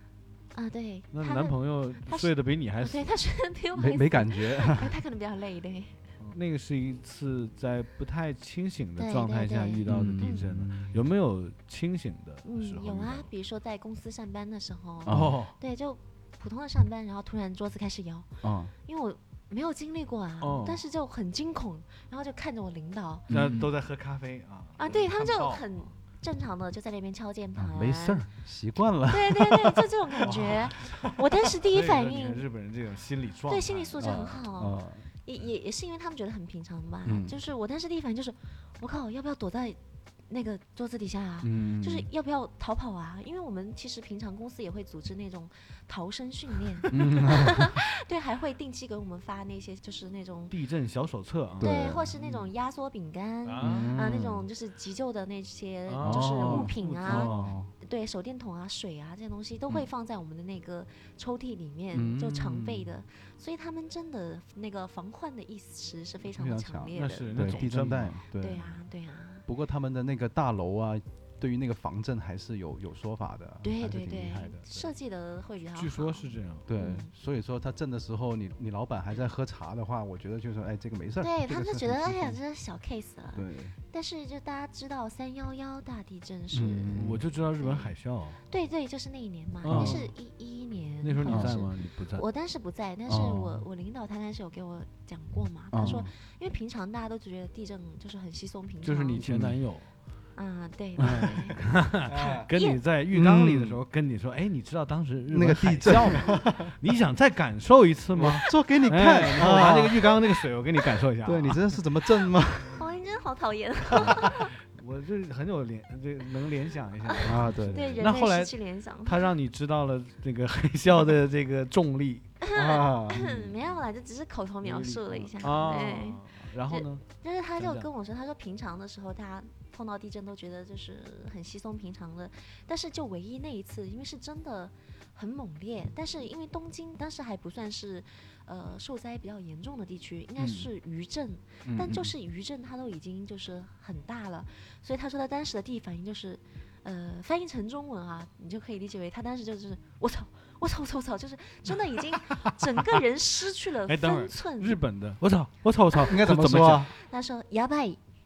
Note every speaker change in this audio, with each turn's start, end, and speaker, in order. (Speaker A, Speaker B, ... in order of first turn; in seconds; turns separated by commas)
Speaker A: 0.5-6.0, Speaker B: 1.1-3.1, Speaker C: 3.8-5.0, Speaker B: 6.2-13.3, Speaker A: 9.0-10.5, Speaker C: 9.9-11.0, Speaker A: 12.4-18.3, Speaker C: 15.0-15.4, Speaker B: 15.1-15.6, Speaker C: 18.4-18.7, Speaker A: 18.8-23.3, Speaker B: 20.4-20.8, Speaker C: 23.3-23.7, Speaker B: 23.3-25.7, Speaker A: 24.8-28.3, Speaker C: 27.6-30.7, Speaker A: 29.1-32.4, Speaker B: 30.2-34.2, Speaker A: 33.5-50.6, Speaker C: 34.0-35.1, Speaker C: 37.0-37.4, Speaker C: 41.4-42.1, Speaker C: 46.9-47.6, Speaker B: 50.5-51.8, Speaker C: 51.6-52.5, Speaker A: 51.6-67.7, Speaker B: 53.4-54.1, Speaker C: 53.6-54.5, Speaker B: 55.9-57.6, Speaker C: 56.0-57.7, Speaker C: 61.9-63.0, Speaker C: 66.3-68.8, Speaker B: 66.9-68.2, Speaker A: 68.3-69.5, Speaker C: 69.5-74.9, Speaker A: 73.6-77.1, Speaker B: 75.7-76.7, Speaker C: 76.7-82.4, Speaker A: 81.2-99.2, Speaker C: 83.3-83.8, Speaker C: 86.5-87.2, Speaker B: 86.9-88.4, Speaker B: 89.6-90.1, Speaker C: 89.7-90.1, Speaker B: 91.0-92.2, Speaker C: 91.2-91.6, Speaker C: 93.1-93.7, Speaker C: 95.7-96.1, Speaker B: 98.8-99.9, Speaker C: 99.2-99.6, Speaker A: 100.3-102.8, Speaker B: 101.0-111.8, Speaker C: 102.1-102.5, Speaker C: 103.1-103.8, Speaker C: 105.3-106.6, Speaker C: 108.1-110.2, Speaker C: 111.2-112.8, Speaker A: 112.7-114.5, Speaker B: 113.9-122.3, Speaker C: 117.2-118.0, Speaker A: 117.3-119.3, Speaker A: 122.5-154.8, Speaker C: 122.5-123.3, Speaker B: 124.6-127.0, Speaker B: 127.6-127.9, Speaker B: 140.4-140.7, Speaker C: 141.7-142.1, Speaker B: 153.8-156.9, Speaker C: 156.1-156.9, Speaker A: 156.8-158.0